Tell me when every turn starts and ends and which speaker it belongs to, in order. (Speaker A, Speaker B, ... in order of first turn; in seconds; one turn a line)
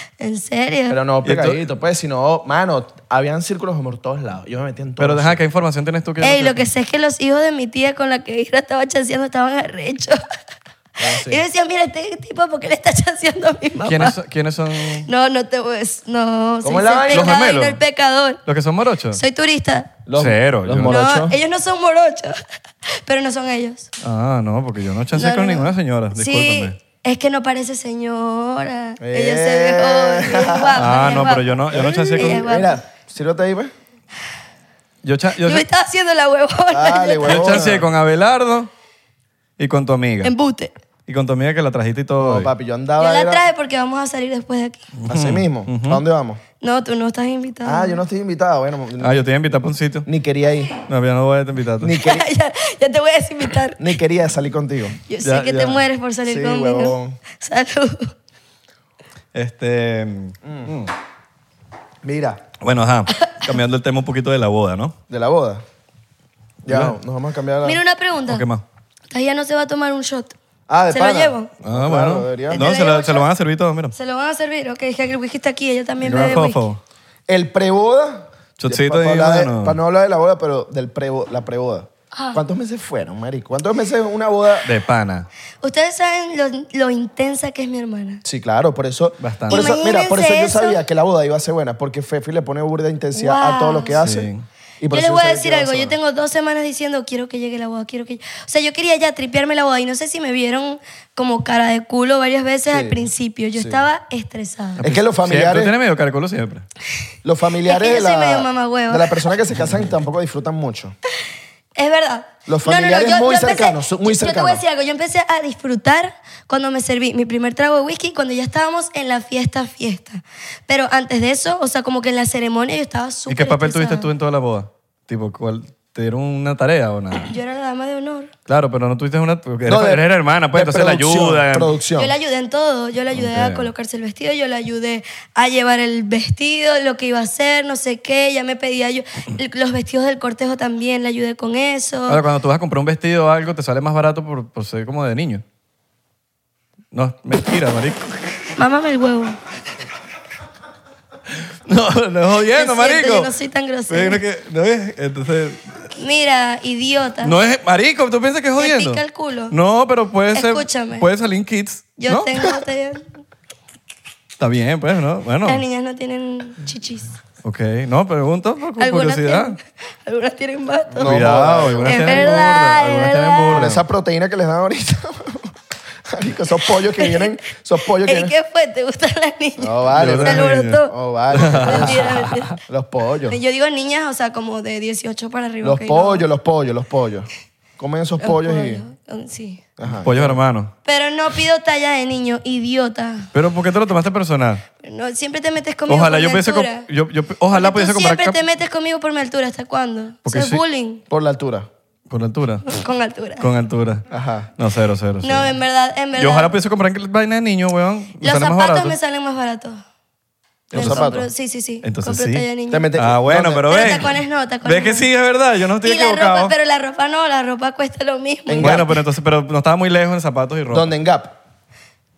Speaker A: 0.2-1.0
Speaker B: 0.9-5.4
Speaker C: 1.2-1.6
Speaker C: 5.0-6.6
Speaker A: 6.2-10.2
Speaker B: 11.0-11.4
Speaker A: 11.0-14.2
Speaker C: 13.8-15.1
Speaker A: 15.0-18.4
Speaker B: 16.6-17.4
Speaker C: 17.1-17.8
Speaker C: 18.4-19.2
Speaker A: 19.1-20.0
Speaker B: 20.1-21.4
Speaker C: 20.1-21.0
Speaker A: 20.8-22.4
Speaker A: 23.0-23.9
Speaker C: 24.0-26.8
Speaker A: 25.1-32.8
Speaker B: 29.0-33.7
Speaker C: 30.8-32.4
Speaker C: 35.0-35.6
Speaker A: 35.4-37.6
Speaker B: 36.7-37.9
Speaker C: 37.3-38.7
Speaker C: 39.6-40.3
Speaker A: 40.2-40.7
Speaker C: 41.0-42.5
Speaker B: 42.2-43.4
Speaker A: 43.0-44.8
Speaker C: 45.0-46.0
Speaker B: 45.1-46.4
Speaker A: 46.6-48.0
Speaker B: 47.6-49.3
Speaker C: 49.0-50.1
Speaker B: 50.0-50.8
Speaker C: 50.9-51.9
Speaker B: 51.8-52.2
Speaker A: 52.0-53.9
Speaker B: 53.8-55.0
Speaker A: 55.1-58.1
Speaker C: 55.2-55.8
Speaker B: 56.2-57.2
Speaker C: 59.3-60.9
Speaker B: 60.4-60.7
Speaker B: 62.0-62.4
Speaker C: 62.6-65.0
Speaker B: 65.1-65.6
Speaker C: 66.7-67.0
Speaker B: 66.7-67.8
Speaker A: 67.6-68.4
Speaker C: 68.3-68.6
Speaker A: 69.1-70.3
Speaker B: 70.7-72.7
Speaker A: 70.9-71.5
Speaker C: 71.6-73.9
Speaker A: 72.5-73.2
Speaker A: 73.9-76.6
Speaker C: 76.0-76.8
Speaker B: 77.3-84.7
Speaker C: 78.6-79.8
Speaker A: 82.1-82.4
Speaker C: 84.6-85.3
Speaker A: 85.6-88.2
Speaker B: 88.2-94.3
Speaker C: 89.2-89.7
Speaker A: 89.5-90.8
Speaker A: 93.1-94.0
Speaker C: 94.0-94.5
Speaker B: 94.8-96.0
Speaker A: 94.9-104.8
Speaker B: 102.7-103.8
Speaker C: 104.8-106.7
Speaker B: 104.8-105.7
Speaker B: 107.2-111.0
Speaker A: 107.7-109.3
Speaker A: 111.8-124.1
Speaker B: 112.5-114.6
Speaker C: 123.3-127.3
Speaker A: 127.2-128.3
Speaker C: 128.5-131.7
Speaker B: 129.7-132.1
Speaker A: 132.0-142.2
Speaker C: 133.1-133.7
Speaker C: 142.1-145.4
Speaker C: 146.9-148.1
Speaker A: 148.6-149.4
Speaker C: 151.6-153.3
Speaker A: 152.5-154.2
Speaker C: 153.9-155.9
Speaker A: 156.0-157.4
Speaker C: 157.2-162.6
Speaker A: 158.6-159.5
Speaker A: 160.3-161.1
Speaker A: 162.0-163.1
Speaker C: 164.4-165.6
Speaker A: 165.4-167.1
Speaker C: 167.4-169.6
Speaker A: 168.8-171.3
Speaker C: 170.9-173.8
Speaker B: 171.0-172.3
Speaker A: 171.8-173.7
Speaker B: 173.5-175.5
Speaker B: 176.1-178.3
Speaker A: 177.0-177.4
Speaker A: 178.0-180.9
Speaker B: 179.6-183.4
Speaker C: 179.9-182.6
Speaker A: 181.6-182.5
Speaker A: 183.3-186.2
Speaker B: 185.6-188.8
Speaker A: 188.2-189.6
Speaker B: 189.8-190.4
Speaker C: 189.8-190.7
Speaker A: 190.8-193.3
Speaker C: 193.3-194.6
Speaker A: 194.8-196.9
Speaker C: 195.9-198.4
Speaker A: 197.5-201.0
Speaker C: 200.2-200.6
Speaker B: 201.1-201.7
Speaker C: 202.1-202.7
Speaker A: 202.7-203.5
Speaker C: 203.4-204.0
Speaker B: 204.1-204.5
Speaker C: 204.6-205.5
Speaker A: 205.2-206.5
Speaker C: 206.2-209.0
Speaker A: 208.2-209.8
Speaker B: 210.7-211.3
Speaker A: 210.7-212.9
Speaker C: 210.7-211.1
Speaker C: 211.8-216.5
Speaker B: 212.7-214.0
Speaker A: 213.7-215.1
Speaker A: 215.8-218.9
Speaker B: 218.5-218.9
Speaker C: 218.6-220.9
Speaker B: 220.7-221.3